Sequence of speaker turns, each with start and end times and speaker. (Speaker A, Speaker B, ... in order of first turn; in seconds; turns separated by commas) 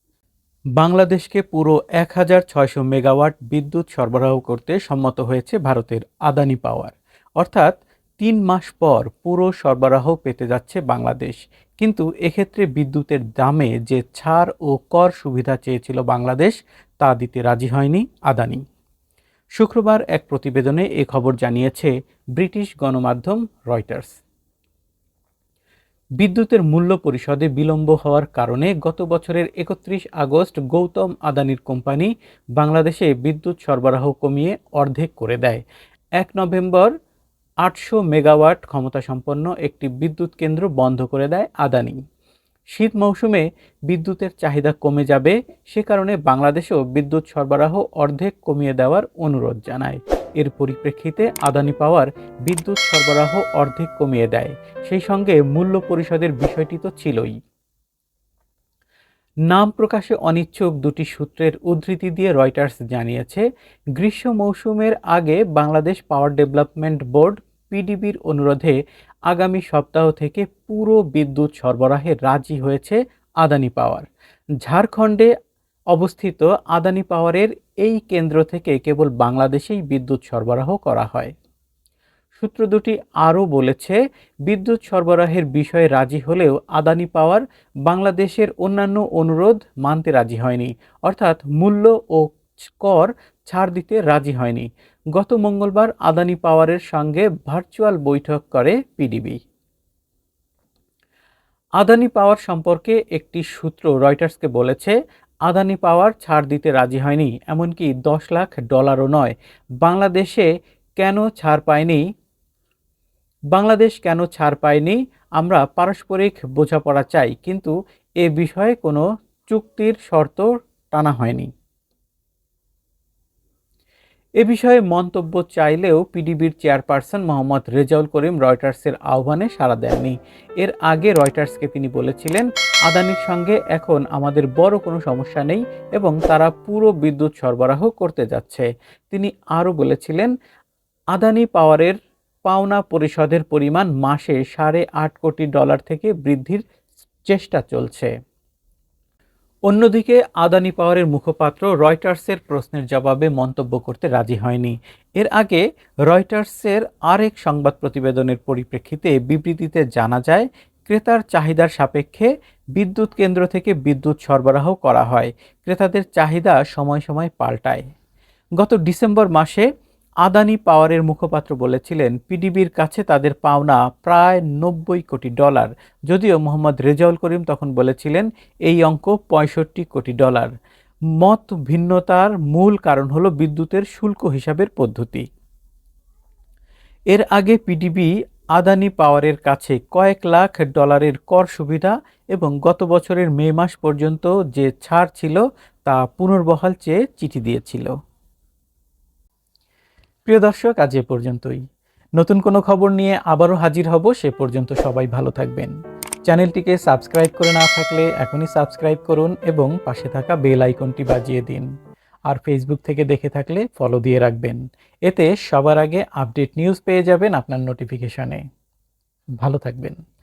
Speaker A: 0.8-18.6, Speaker A: 19.6-24.1, Speaker A: 26.2-35.6, Speaker A: 36.2-36.9, Speaker A: 37.6-42.0, Speaker A: 42.7-57.4, Speaker A: 59.5-63.4, Speaker A: 64.0-68.8, Speaker A: 69.3-74.1, Speaker A: 74.6-75.3, Speaker A: 75.9-81.3, Speaker A: 82.4-99.4, Speaker A: 101.8-110.5, Speaker A: 111.0-112.0, Speaker A: 113.5-121.5, Speaker A: 124.4-140.3, Speaker A: 141.1-146.6, Speaker A: 147.3-148.1, Speaker A: 149.7-167.8, Speaker A: 168.6-169.7, Speaker A: 170.2-180.5, Speaker A: 181.2-185.3, Speaker A: 187.1-197.9, Speaker A: 200.3-201.6, Speaker A: 202.2-205.7, Speaker A: 206.3-211.7, Speaker A: 212.3-218.4, Speaker A: 219.4-220.0